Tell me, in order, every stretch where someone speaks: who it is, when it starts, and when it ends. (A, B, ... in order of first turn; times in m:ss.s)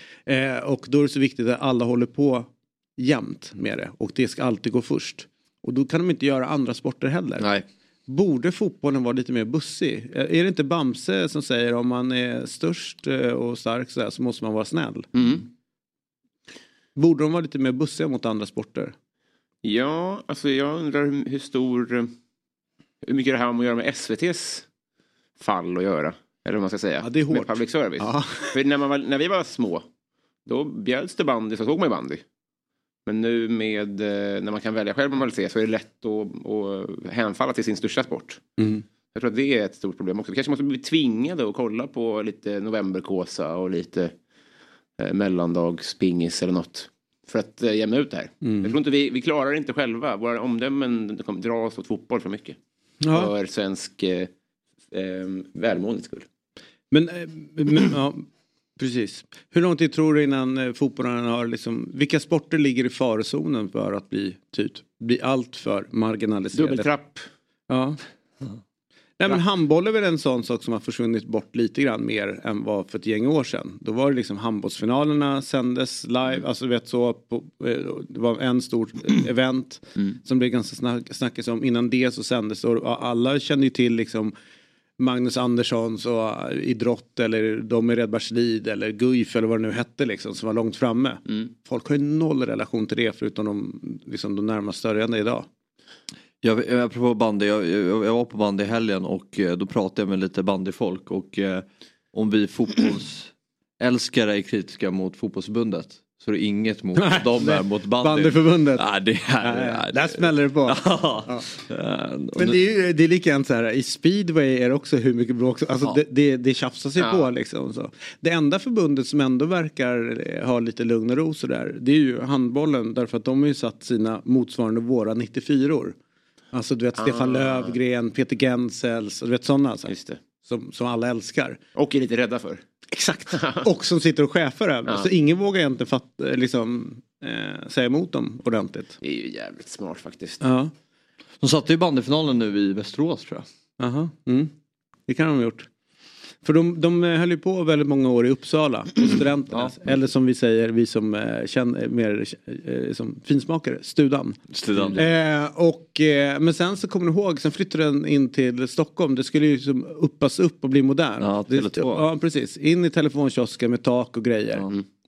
0:00.2-0:07.4 A
0:07.4-0:07.6 B
0:08.1-0:15.2 A
0:15.1-0:15.4 C
0:17.0-0:18.9 A
0:19.6-0:22.1 C
0:23.0-0:24.6 C
0:25.4-0:29.8 C
0:27.0-0:28.5 A
0:30.4-0:32.2 C
0:33.0-0:38.4 C
0:38.6-0:38.8 A
0:39.1-0:44.1 C
0:45.0-0:52.6 C
0:48.4-0:48.8 A
0:53.0-0:53.3 A
0:53.1-0:54.3 C
0:54.9-0:56.3 C
0:56.9-1:06.9 A
1:06.5-1:07.3 C
1:07.7-1:08.0 A
1:09.2-1:24.3 A
1:25.0-1:35.5 A
1:36.4-1:52.6 B
1:47.0-1:48.9 A
1:49.4-1:51.4 A
1:52.4-2:06.0 A
1:57.0-1:57.3 C
2:06.5-2:09.9 A
2:07.0-2:07.7 C
2:09.9-2:10.2 C
2:10.4-2:11.6 A
2:11.7-2:12.6 C
2:12.9-2:18.9 A
2:13.3-2:13.6 C
2:19.0-2:20.4 C
2:20.4-2:20.7 A
2:21.4-2:23.4 B
2:23.8-2:24.5 A
2:25.1-2:25.7 A
2:26.4-2:44.7 A
2:34.5-2:35.0 B
2:41.2-2:42.0 B